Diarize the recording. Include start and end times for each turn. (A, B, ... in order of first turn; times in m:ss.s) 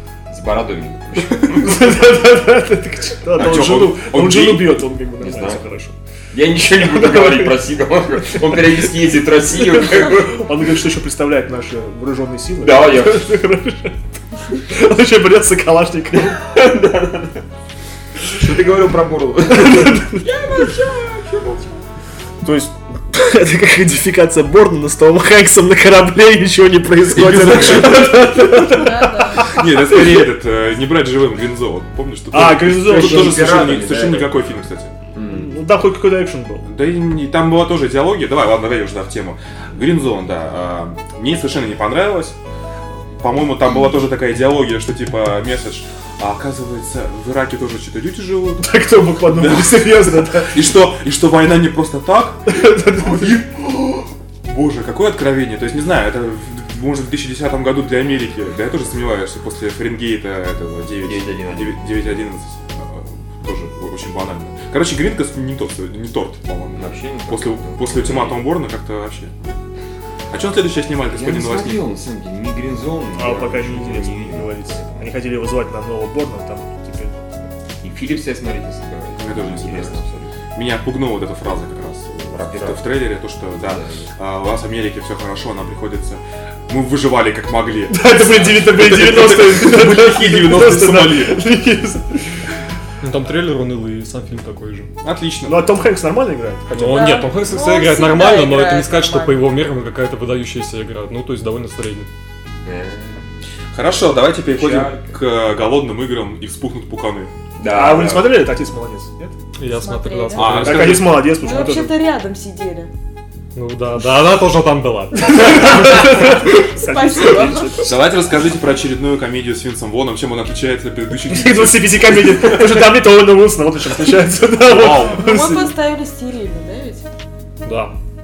0:00.3-0:02.0 A
0:01.4-0:06.0 B
0:03.3-0:04.8 C
0:05.2-0:05.6 A
0:06.3-0:10.5 A
0:06.8-0:07.6 B
0:09.8-0:16.4 B
0:12.6-0:13.4 A
0:16.2-0:17.4 A
0:18.2-0:21.8 A
0:19.5-0:20.2 B
0:22.4-0:30.0 B
0:27.0-0:28.6 C
0:28.4-0:29.6 D
0:29.4-0:34.9 C
0:32.3-0:33.7 B
0:32.8-0:34.4 A
0:35.1-0:35.5 A
0:35.3-0:36.6 B
0:36.6-0:42.4 C
0:43.2-1:09.5 C
0:48.6-0:50.7 B
0:52.5-0:53.4 B
1:01.0-1:02.2 A
1:06.7-1:08.4 A
1:10.3-1:11.8 C
1:11.0-1:15.1 A
1:13.2-1:17.5 B
1:17.8-1:20.4 A
1:19.2-1:20.0 C
1:20.5-1:31.4 C
1:22.2-1:22.9 A
1:23.6-1:24.1 A
1:27.9-1:32.4 B
1:33.0-1:34.9 E
1:35.0-1:35.7 C
1:35.4-1:37.2 B
1:36.7-1:42.1 E
1:36.8-1:39.4 D
1:42.6-1:43.2 A
1:43.7-1:47.3 C
1:44.4-1:45.2 A
1:47.6-1:48.4 A
1:47.7-1:49.4 B
1:49.6-1:51.0 E
1:49.7-1:50.5 D
1:50.3-1:51.2 C
1:50.5-1:51.9 B
1:51.2-1:52.9 D
1:53.5-1:55.8 E
1:55.3-1:58.0 B
1:55.4-1:57.8 D
1:57.8-2:02.8 C
2:01.3-2:05.7 B
2:04.6-2:05.2 C
2:05.0-2:07.0 D
2:07.6-2:07.9 E
2:07.6-2:07.9 B